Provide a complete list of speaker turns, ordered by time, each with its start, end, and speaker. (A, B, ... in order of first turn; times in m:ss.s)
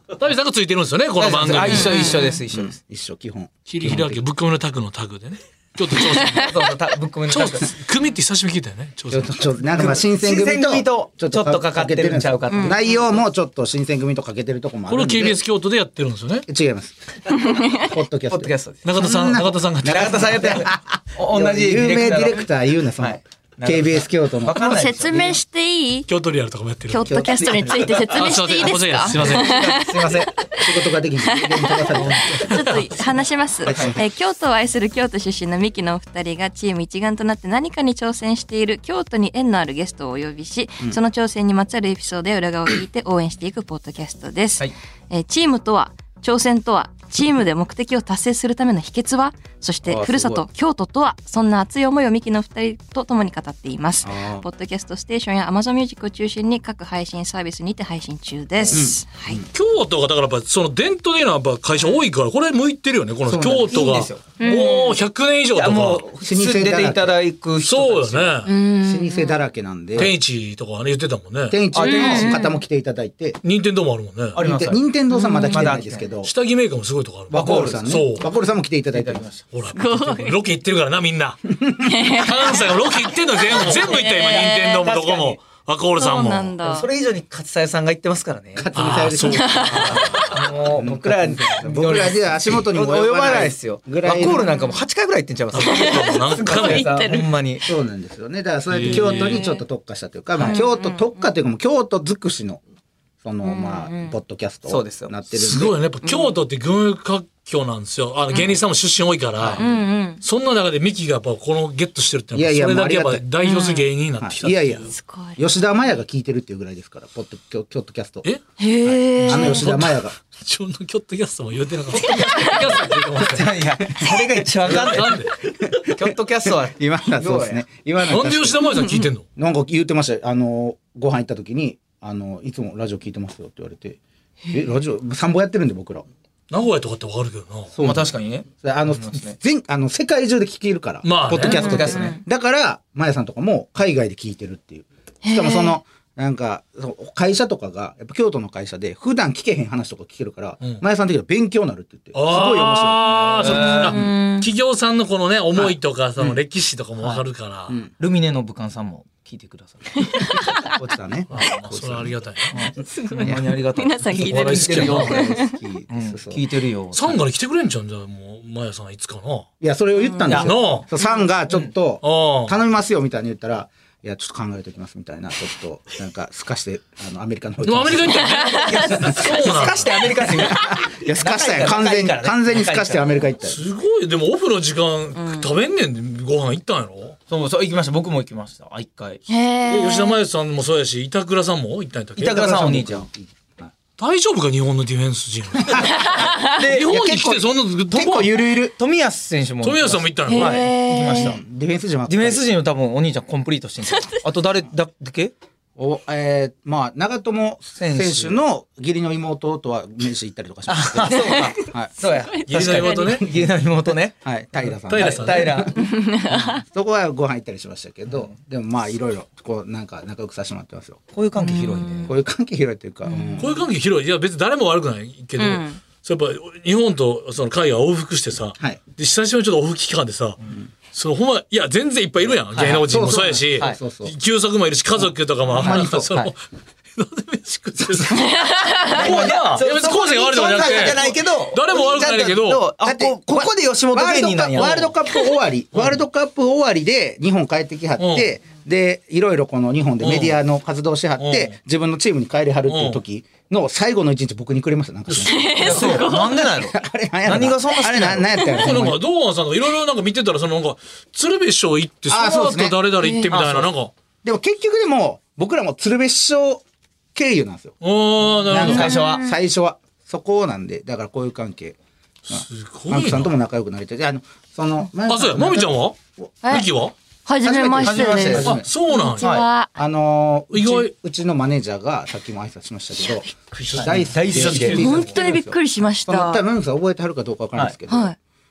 0:00.2-0:02.2 A
0:01.2-0:02.8 B
0:01.6-0:02.4 C
0:02.5-0:04.2 D
0:03.7-0:06.6 A
0:06.3-0:07.7 B
0:07.3-0:09.4 A
0:09.1-0:15.4 D
0:09.7-0:13.0 B
0:12.5-0:12.8 C
0:14.9-0:16.4 A
0:16.5-0:24.7 D
0:17.3-0:17.9 C
0:18.3-0:18.8 B
0:18.8-0:20.5 A
0:19.8-0:22.5 B
0:23.0-0:25.4 B
0:24.5-0:26.1 C
0:26.1-0:27.2 A
0:26.9-0:59.4 C
0:27.0-0:28.0 D
0:28.0-0:29.7 A
0:29.1-0:30.4 B
0:30.6-0:32.6 D
0:32.0-0:32.3 B
0:32.3-0:32.9 A
0:33.6-0:34.0 D
0:33.7-0:33.9 B
0:49.8-0:50.4 B
0:54.0-0:54.4 D
0:58.7-0:59.5 D
0:59.5-1:06.0 A
1:03.2-1:03.9 D
1:03.6-1:04.3 B
1:04.4-1:05.0 C
1:05.5-1:08.4 B
1:06.2-1:07.2 D
1:07.6-1:08.5 A
1:08.4-1:09.4 C
1:08.8-1:10.1 D
1:10.0-1:11.6 A
1:11.5-1:13.4 D
1:11.7-1:12.5 B
1:11.8-1:12.6 C
1:13.4-1:14.4 A
1:14.3-1:14.8 B
1:14.4-1:16.3 D
1:15.1-1:15.7 C
1:15.4-1:16.1 B
1:16.2-1:18.3 A
1:17.3-1:18.1 B
1:17.3-1:19.3 D
1:18.9-1:19.4 B
1:19.5-1:26.5 A
1:19.7-1:20.4 C
1:21.6-1:21.9 D
1:21.8-1:24.9 C
1:23.5-1:25.4 B
1:26.0-1:26.9 C
1:26.6-1:29.1 B
1:28.6-1:34.6 D
1:28.7-1:30.4 A
1:29.3-1:30.0 C
1:29.7-1:37.6 B
1:34.4-1:34.8 C
1:35.5-1:36.9 A
1:35.6-1:37.3 C
1:37.6-1:42.6 D
1:38.7-1:39.5 A
1:38.9-1:39.6 C
1:40.4-1:41.3 C
1:43.2-1:45.8 D
1:43.4-1:44.1 C
1:44.7-1:45.1 B
1:45.3-1:49.6 A
1:48.3-1:48.6 C
1:49.6-1:50.2 C
1:50.2-1:54.9 A
1:52.3-1:53.2 D
1:53.4-1:53.9 C
1:54.2-1:58.3 D
1:54.9-1:55.4 C
1:58.6-1:59.7 C
1:58.8-2:00.2 D
1:59.2-2:03.6 A
2:02.0-2:07.6 B
2:02.0-2:02.7 C
2:03.8-2:08.7 D
2:04.6-2:05.4 A
2:08.1-2:09.2 A
2:08.7-2:09.0 C
2:09.3-2:14.0 D
2:14.5-2:16.0 D
2:16.5-2:17.7 A
2:17.8-2:18.1 D
2:17.8-2:19.4 B
2:18.6-2:34.1 D
2:21.0-2:21.7 A
2:21.4-2:22.2 B
2:21.4-2:22.2 C
2:25.2-2:25.8 C
2:32.1-2:37.8 A
2:33.4-2:34.0 B
2:33.7-2:34.5 C
2:35.6-2:36.4 B
2:38.0-2:40.3 B
2:40.0-2:40.7 C
2:40.6-2:42.2 D
2:41.3-2:42.6 A
2:42.5-2:47.2 B
2:42.8-2:45.5 C
2:43.2-2:43.5 D
2:44.2-2:45.2 A
2:45.1-2:46.4 D
2:46.9-2:49.5 A
2:49.6-2:58.3 D
2:50.0-2:50.4 C
2:50.3-2:50.9 A
2:52.0-2:52.5 A
2:57.6-3:00.0 A
2:58.1-2:59.2 C
2:58.3-3:03.3 B
2:59.0-3:03.6 D
3:03.4-3:07.2 A
3:05.2-3:05.5 C
3:07.3-3:09.2 B
3:09.3-3:10.2 C
3:09.7-3:12.5 A
3:12.2-3:13.1 B
3:12.2-3:13.7 D
3:14.0-3:18.3 A
3:15.6-3:18.7 D
3:15.9-3:16.5 C
3:16.3-3:17.0 B
3:18.6-3:21.4 B
3:19.6-3:20.6 A
3:20.3-3:21.4 C
3:21.1-3:22.4 D
3:22.1-3:25.3 B
3:23.8-3:24.2 C
3:25.8-3:31.9 D
3:27.8-3:28.4 B
3:30.7-3:35.8 B
3:31.0-3:33.3 C
3:32.5-3:33.3 A
3:34.2-3:41.0 D
3:34.8-3:35.7 A
3:35.8-3:36.6 C
3:41.1-3:42.2 B
3:41.4-3:42.1 C
3:42.0-3:43.5 D
3:43.0-3:43.5 C
3:43.4-3:50.4 A
3:45.4-3:45.8 C
3:50.9-3:56.4 A
3:52.5-3:52.8 B
3:52.6-3:54.1 D
3:55.5-3:56.1 D
3:55.6-3:56.3 B
3:56.9-4:02.6 A
3:57.9-3:58.3 D
3:58.1-3:59.1 C
3:58.8-4:04.9 B
4:02.8-4:19.0 D
4:04.6-4:04.8 A
4:05.7-4:06.0 A
4:08.0-4:08.3 A
4:10.0-4:10.4 A
4:11.2-4:11.6 A
4:12.7-4:13.0 A
4:15.1-4:16.1 A
4:15.2-4:16.7 C
4:15.6-4:18.4 B
4:18.5-4:23.9 A
4:22.1-4:22.8 D
4:23.0-4:23.3 C
4:23.3-4:23.7 B
4:24.2-4:26.6 D
4:27.1-4:27.8 D
4:27.8-4:28.9 A
4:28.4-4:31.8 D
4:28.6-4:29.2 B
4:28.6-4:29.4 C
4:32.3-4:33.3 A
4:32.3-4:36.3 D
4:35.0-4:36.9 A
4:36.4-4:36.7 C
4:37.2-4:39.7 C
4:37.4-4:38.7 D
4:37.8-4:38.6 B
4:38.4-4:39.3 A
4:39.2-4:39.4 B
4:39.8-4:48.1 D
4:40.5-4:40.9 A
4:43.6-4:45.0 A
4:43.7-4:45.4 B
4:44.7-4:46.4 C
4:47.9-4:48.2 C